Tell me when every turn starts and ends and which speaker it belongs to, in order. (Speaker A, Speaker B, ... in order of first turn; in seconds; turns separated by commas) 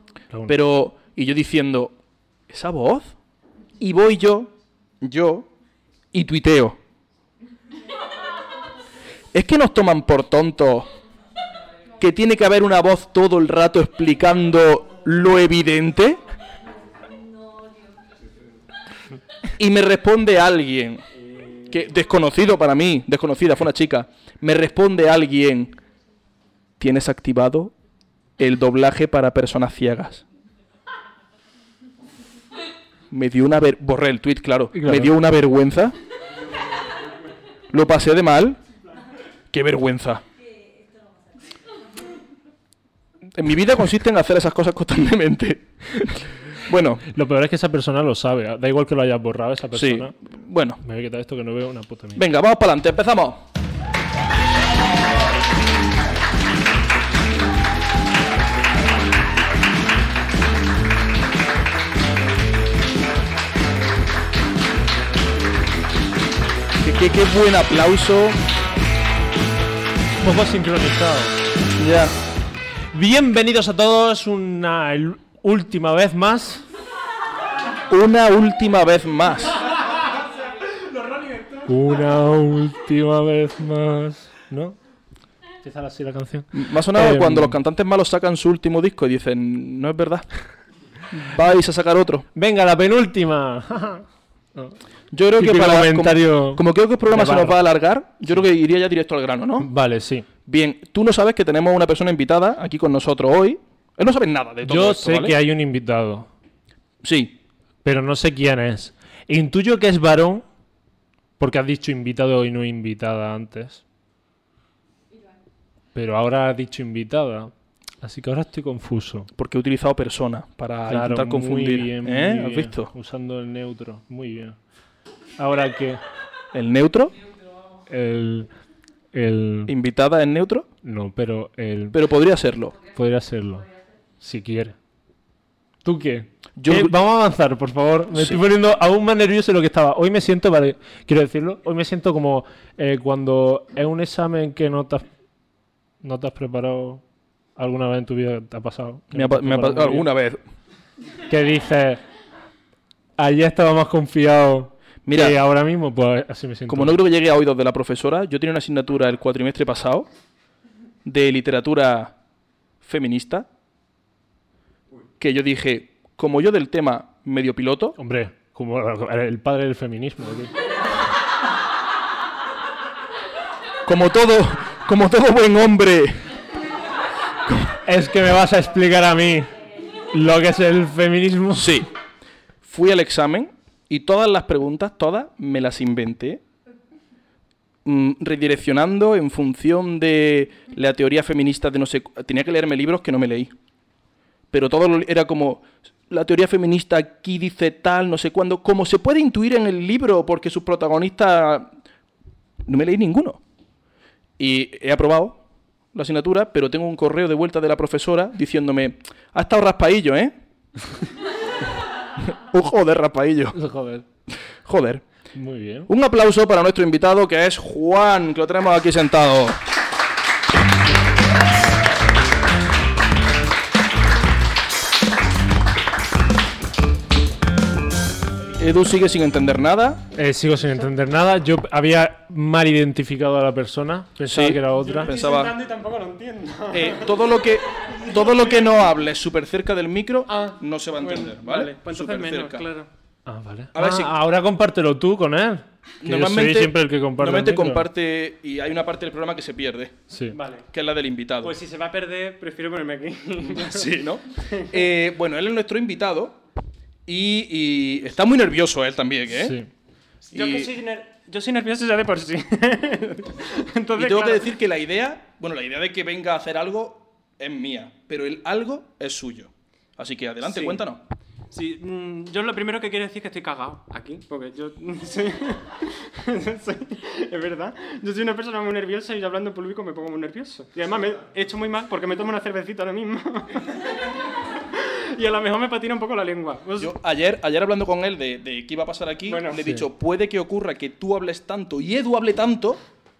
Speaker A: 0.5-1.9, Speaker A: 2.5-3.1, Speaker A: 3.8-5.5, Speaker A: 6.1-6.8, Speaker A: 9.3-10.9, Speaker A: 12.0-16.2, Speaker A: 19.6-21.0, Speaker B: 21.3-21.7, Speaker A: 21.7-25.8, Speaker A: 26.8-27.7, Speaker A: 28.4-30.2, Speaker A: 33.1-35.9, Speaker C: 34.7-35.1, Speaker A: 37.7-38.6, Speaker A: 39.5-40.2, Speaker A: 43.3-47.0, Speaker C: 47.0-50.1, Speaker A: 49.7-50.8, Speaker C: 50.8-52.2, Speaker A: 52.1-53.4, Speaker A: 66.8-68.4, Speaker C: 70.2-71.4, Speaker A: 71.8-72.1, Speaker C: 72.9-76.6, Speaker A: 77.9-79.6, Speaker B: 79.7-81.7, Speaker C: 81.7-84.8, Speaker C: 85.6-87.6, Speaker A: 86.5-90.2, Speaker A: 91.1-92.2, Speaker C: 92.3-94.8, Speaker A: 95.1-99.7, Speaker C: 95.4-97.6, Speaker C: 99.6-100.2, Speaker A: 100.5-105.3, Speaker C: 104.7-106.3, Speaker A: 107.0-107.3, Speaker C: 107.8-110.4, Speaker C: 111.4-113.8, Speaker C: 115.9-119.3, Speaker A: 119.3-122.9, Speaker C: 120.9-124.6, Speaker C: 125.4-126.0, Speaker A: 126.5-127.1, Speaker C: 127.9-128.5, Speaker C: 129.1-129.7, Speaker A: 129.7-130.7, Speaker C: 130.8-132.0, Speaker A: 131.9-132.8, Speaker C: 132.8-133.7, Speaker C: 134.2-134.8, Speaker C: 135.8-145.1, Speaker A: 136.6-136.9, Speaker A: 138.1-138.4, Speaker C: 146.0-147.0, Speaker C: 147.6-150.1, Speaker A: 149.1-150.4, Speaker C: 151.3-152.0, Speaker C: 153.2-157.0, Speaker A: 155.1-155.4, Speaker A: 156.7-160.1, Speaker A: 161.0-162.1, Speaker A: 162.8-163.5, Speaker A: 165.2-168.0, Speaker C: 168.0-170.5, Speaker A: 173.8-176.2, Speaker C: 177.8-179.5, Speaker C: 180.1-181.9, Speaker A: 181.5-181.9, Speaker A: 182.6-186.4, Speaker A: 187.8-193.5, Speaker A: 194.5-201.7, Speaker A: 202.7-203.4, Speaker A: 204.4-205.4, Speaker A: 205.9-210.3, Speaker A: 212.2-213.6, Speaker C: 213.5-214.0, Speaker A: 214.6-215.0, Speaker C: 215.3-215.9, Speaker A: 215.9-219.6, Speaker A: 228.6-230.0, Speaker C: 230.1-235.1, Speaker A: 234.3-235.5, Speaker B: 234.7-237.2, Speaker A: 236.7-242.6, Speaker B: 238.0-238.4, Speaker B: 240.3-242.9, Speaker C: 243.3-247.8, Speaker A: 243.7-244.1, Speaker A: 246.0-249.9, Speaker C: 250.1-250.3, Speaker B: 250.3-250.7, Speaker A: 250.7-251.5, Speaker B: 251.4-254.7, Speaker A: 253.4-256.4, Speaker A: 257.1-259.6, Speaker C: 259.4-259.7, Speaker B: 260.3-264.5, Speaker A: 260.3-260.7, Speaker A: 263.9-271.0, Speaker B: 270.4-270.8, Speaker B: 271.5-283.9, Speaker B: 284.6-286.9, Speaker A: 286.8-292.8, Speaker B: 289.3-289.7